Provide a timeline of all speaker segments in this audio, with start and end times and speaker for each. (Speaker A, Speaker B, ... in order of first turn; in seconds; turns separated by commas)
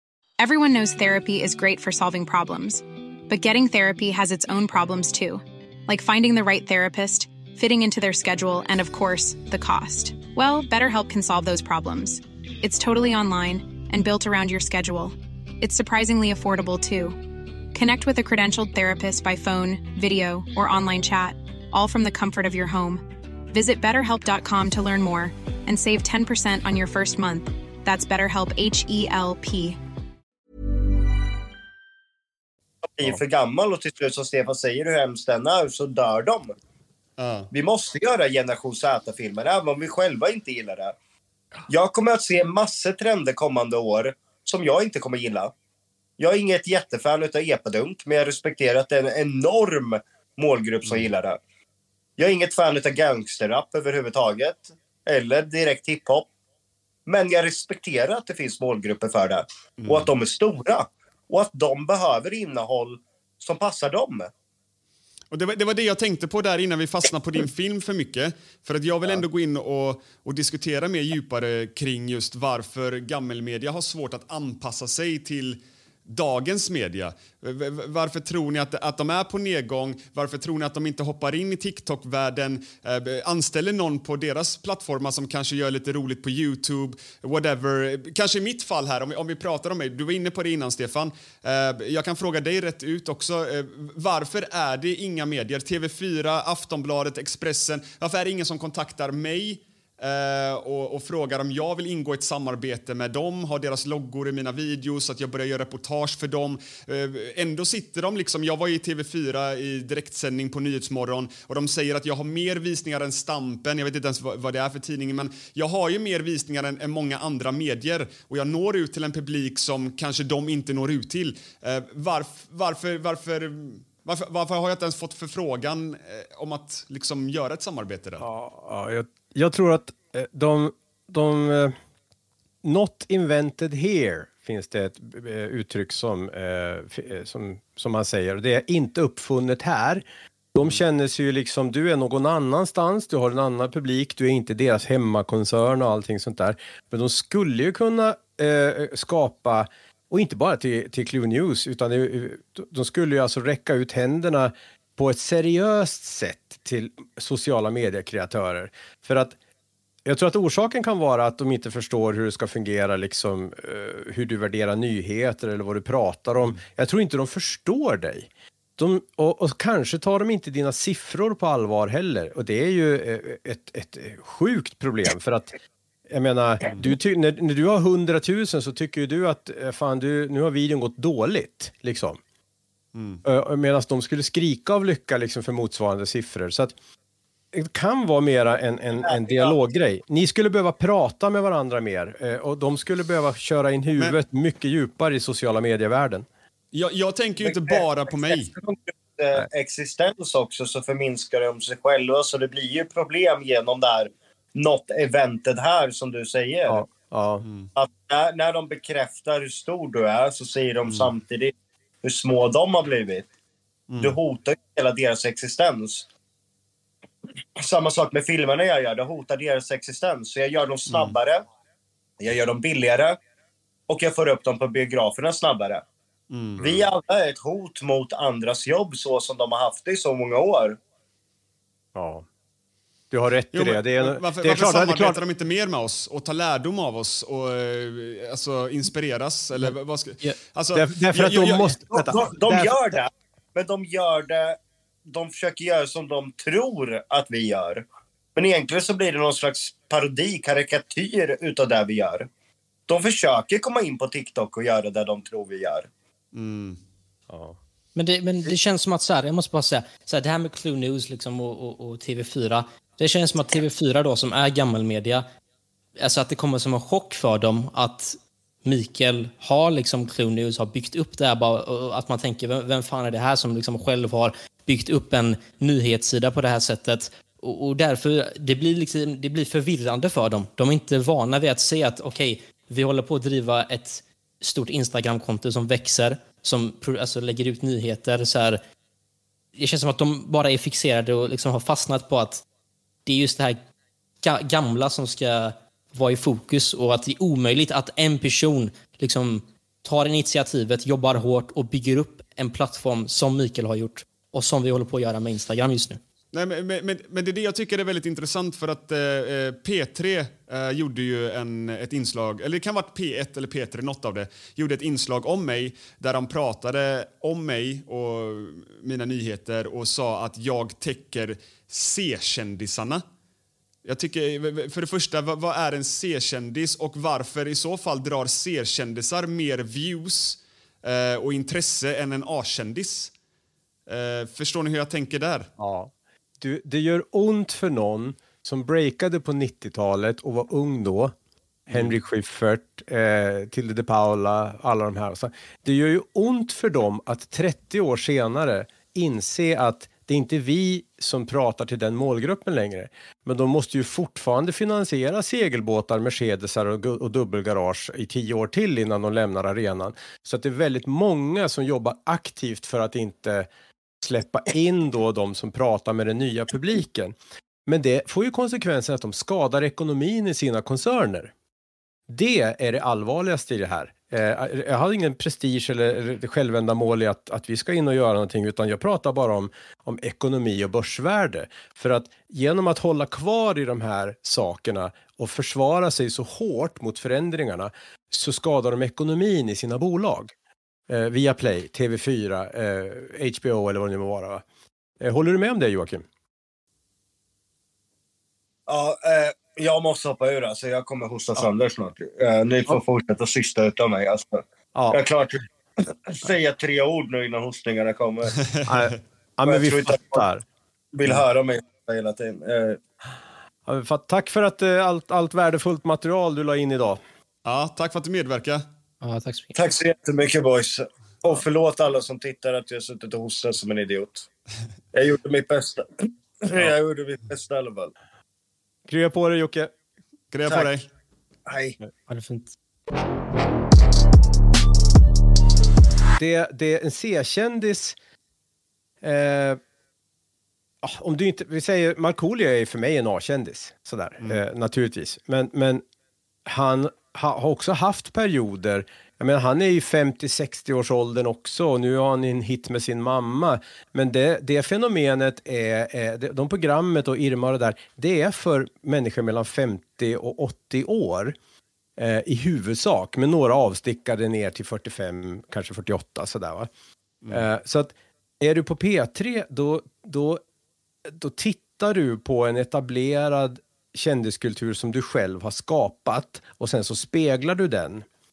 Speaker A: 0.4-29.8, Speaker B: 32.9-36.5, Speaker C: 37.2-37.5, Speaker B: 37.5-40.9, Speaker B: 41.7-45.5, Speaker B: 46.2-51.4, Speaker B: 52.2-56.3, Speaker B: 57.0-64.3, Speaker C: 59.8-60.1, Speaker C: 65.3-128.2, Speaker D: 128.2-131.7, Speaker D: 132.6-159.3, Speaker D: 160.1-175.5, Speaker D: 176.1-182.2, Speaker C: 182.9-183.2, Speaker D: 183.2-186.7, Speaker D: 187.5-196.2, Speaker B: 189.0-189.5, Speaker C: 196.7-198.5, Speaker B: 197.4-206.8, Speaker D: 206.7-207.4, Speaker C: 207.4-207.7, Speaker B: 207.8-211.5, Speaker B: 212.0-213.3, Speaker C: 213.9-214.2, Speaker B: 214.0-216.1, Speaker B: 217.6-221.4, Speaker C: 220.9-221.1, Speaker B: 222.2-223.2, Speaker B: 223.9-225.8, Speaker C: 226.3-226.9, Speaker B: 226.6-230.8, Speaker D: 231.9-232.2, Speaker D: 233.1-235.2, Speaker C: 233.5-241.7, Speaker D: 240.7-243.0, Speaker B: 241.9-252.3, Speaker B: 252.9-255.9, Speaker C: 256.3-256.8, Speaker D: 257.3-257.6, Speaker E: 257.9-265.2, Speaker E: 266.0-288.6, Speaker E: 289.6-292.4, Speaker E: 293.1-293.6, Speaker E: 294.2-306.0, Speaker C: 306.3-323.0, Speaker C: 323.8-333.1, Speaker C: 333.9-335.5, Speaker D: 335.6-341.1, Speaker D: 341.7-363.5, Speaker C: 341.7-341.9, Speaker D: 364.0-371.3, Speaker D: 372.1-390.3, Speaker D: 390.9-394.4, Speaker D: 395.0-396.0, Speaker B: 398.7-408.3, Speaker D: 404.7-405.0, Speaker C: 408.6-408.9, Speaker D: 408.7-410.4, Speaker B: 409.4-410.2, Speaker B: 410.9-412.8, Speaker D: 413.6-417.0, Speaker C: 417.4-418.6, Speaker E: 419.0-419.5, Speaker B: 419.5-424.2, Speaker B: 424.9-427.9, Speaker D: 428.9-429.7, Speaker C: 430.3-430.9, Speaker B: 431.5-431.7, Speaker E: 432.1-432.5, Speaker D: 436.2-437.9, Speaker D: 439.0-439.6, Speaker D: 440.8-445.8, Speaker D: 446.4-461.4, Speaker D: 462.0-466.7, Speaker D: 467.3-470.4, Speaker D: 471.1-478.1